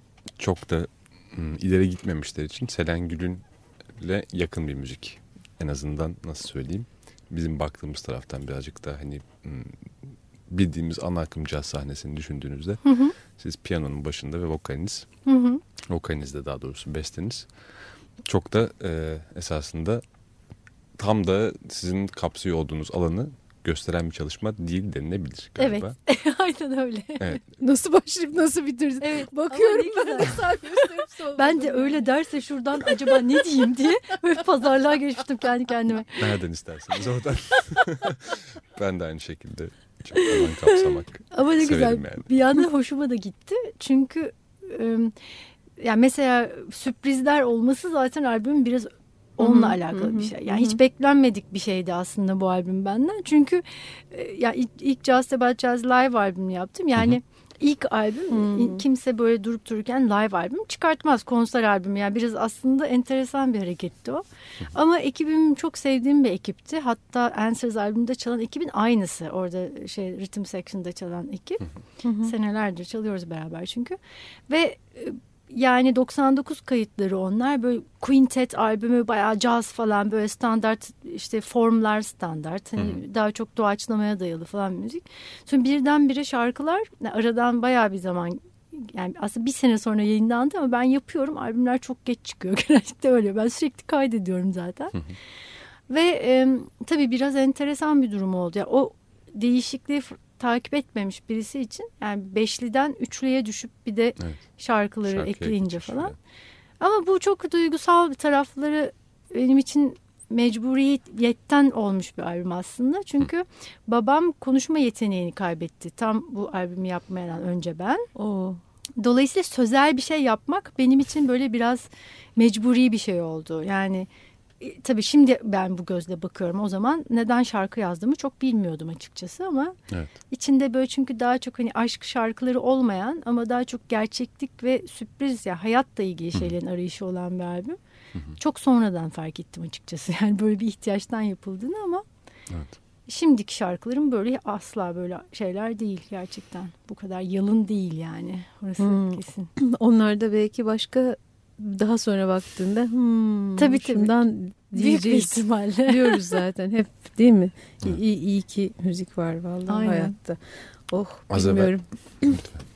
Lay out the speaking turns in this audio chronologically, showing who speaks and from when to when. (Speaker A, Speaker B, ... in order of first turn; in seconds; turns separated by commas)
Speaker A: 0.4-15.1, Speaker B: 12.8-13.1, Speaker B: 15.2-15.6, Speaker A: 15.8-20.0, Speaker A: 20.9-26.0, Speaker B: 25.6-27.4, Speaker C: 27.6-32.2, Speaker B: 29.0-36.4, Speaker C: 32.8-33.2, Speaker A: 36.2-42.3, Speaker B: 41.3-71.7, Speaker C: 49.4-50.8, Speaker C: 58.3-58.8, Speaker C: 72.0-72.3, Speaker B: 72.2-95.1, Speaker B: 95.9-106.2, Speaker A: 105.0-106.2, Speaker B: 106.8-118.1, Speaker C: 118.2-118.6, Speaker B: 119.0-124.1, Speaker B: 124.6-129.8, Speaker B: 130.3-137.8, Speaker B: 138.3-142.0, Speaker A: 142.5-142.8, Speaker B: 143.1-149.5, Speaker C: 148.8-162.4, Speaker B: 153.6-154.2, Speaker B: 154.7-156.4, Speaker B: 159.7-160.1, Speaker A: 161.3-162.6